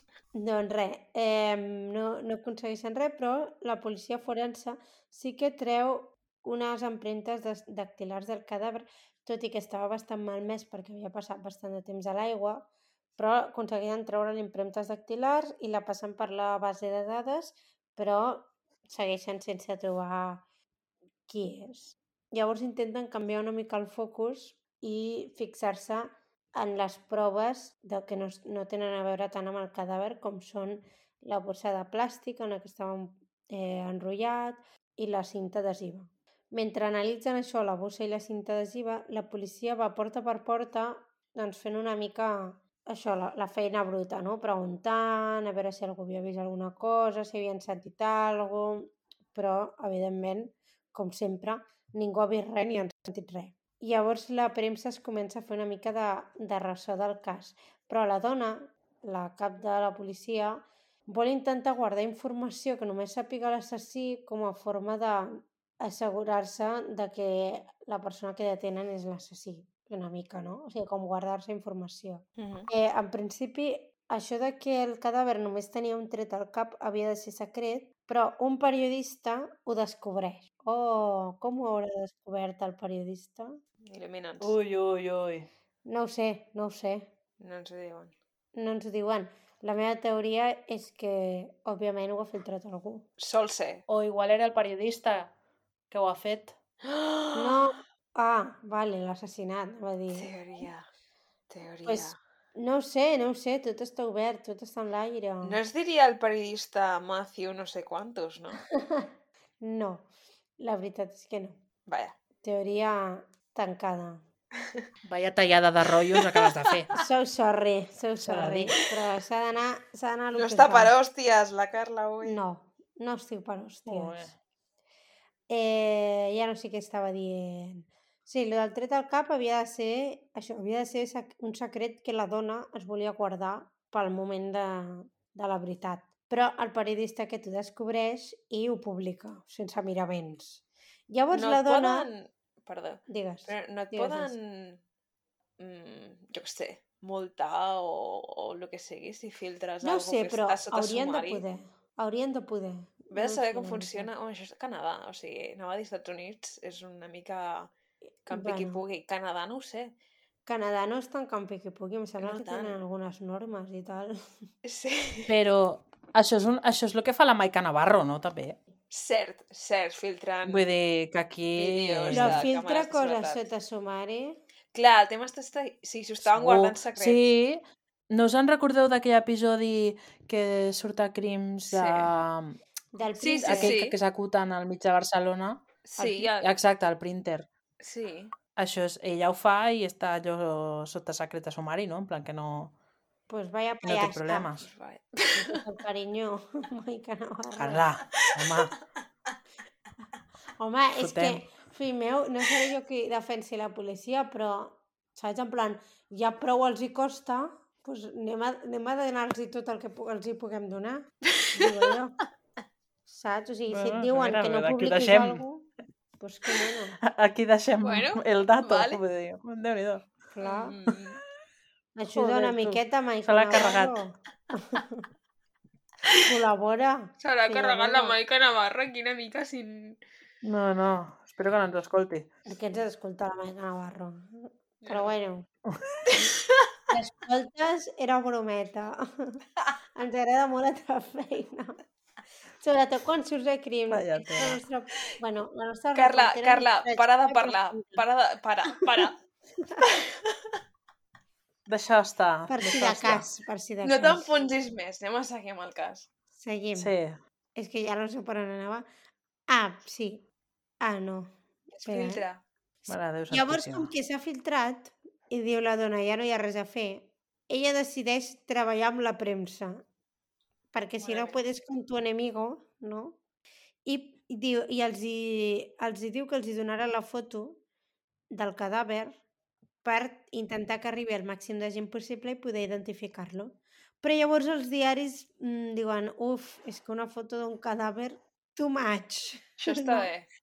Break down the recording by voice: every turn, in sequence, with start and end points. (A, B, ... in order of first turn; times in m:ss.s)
0:00.3-0:20.4 A
0:21.3-1:23.6 A
1:12.4-1:12.7 B
1:23.8-1:24.5 B
1:24.4-1:25.5 C
1:25.8-1:27.1 A
1:27.4-1:28.1 B
1:28.5-1:33.1 A
1:33.2-1:33.8 B
1:33.9-1:35.3 C
1:35.9-1:36.5 C
1:36.8-1:37.8 B
1:37.3-1:40.3 A
1:40.1-1:40.9 B
1:41.5-1:42.2 B
1:41.8-1:45.6 A
1:45.4-1:48.6 B
1:48.7-1:49.1 A
1:49.6-1:50.1 A
1:50.6-1:51.6 A
1:51.9-1:52.1 B
1:52.4-1:54.2 A
1:55.0-1:56.9 C
1:56.1-1:57.0 B
1:56.9-2:00.9 A
1:58.2-1:58.7 C
2:00.3-2:02.4 B
2:02.2-2:04.3 A
2:03.9-2:04.4 C
2:05.5-2:22.1 A
2:21.3-2:24.8 B
2:23.1-2:24.3 A
2:25.6-2:31.4 B
2:29.8-2:34.1 A
2:33.1-2:37.7 B
2:38.2-2:39.9 B
2:38.3-2:38.8 A
2:40.4-2:44.2 A
2:42.2-2:42.8 B
2:44.6-2:45.3 B
2:45.3-2:48.6 C
2:48.9-2:50.6 B
2:50.4-2:52.4 C
2:51.6-2:53.4 B
2:52.1-2:54.4 A
2:54.7-2:57.2 B
2:56.2-3:02.6 C
3:01.7-3:02.1 B
3:02.9-3:03.8 A
3:03.2-3:04.0 B
3:03.4-3:05.6 C
3:05.8-3:06.5 B
3:06.0-3:06.3 A
3:06.4-3:07.4 C
3:07.8-3:08.3 B
3:08.6-3:12.7 C
3:13.3-3:14.5 A
3:13.8-3:14.7 C
3:14.6-3:15.6 B
3:15.3-3:17.8 A
3:17.6-3:18.7 C
3:18.2-3:18.7 B
3:20.6-3:32.2 A
3:21.0-3:21.4 C
3:31.4-3:31.9 B
3:33.0-3:35.7 A
3:33.7-3:35.4 C
3:36.2-3:37.0 A
3:37.0-3:40.1 C
3:37.8-3:39.0 B
3:40.3-3:40.8 A
3:40.4-3:41.2 B
3:42.0-3:45.1 A
3:42.1-3:44.0 C
3:46.2-3:48.2 A
3:47.2-3:50.0 B
3:50.4-3:52.3 C
3:52.5-3:55.5 A
3:54.8-3:55.1 B
3:55.7-3:56.0 C
3:56.1-3:56.7 B
3:56.9-3:59.4 A
3:59.9-4:01.8 A
4:02.6-4:08.0 A
4:03.9-4:04.6 C
4:05.9-4:09.2 B
4:09.6-4:09.8 A
4:09.8-4:10.6 B
4:11.7-4:13.3 C
4:12.5-4:14.3 A
4:13.8-4:16.1 B
4:16.3-4:16.9 A
4:16.8-4:17.2 C
4:17.6-4:18.9 A
4:19.5-4:20.2 A
4:20.8-4:21.3 A
4:21.7-4:22.4 B
4:21.8-4:22.2 A
4:22.9-4:23.9 C
4:23.3-4:29.8 A
4:30.7-4:33.2 A
4:31.0-4:31.4 B
4:33.8-4:37.6 A
4:38.3-4:39.2 A
4:39.8-4:50.1 A
4:49.6-4:50.3 B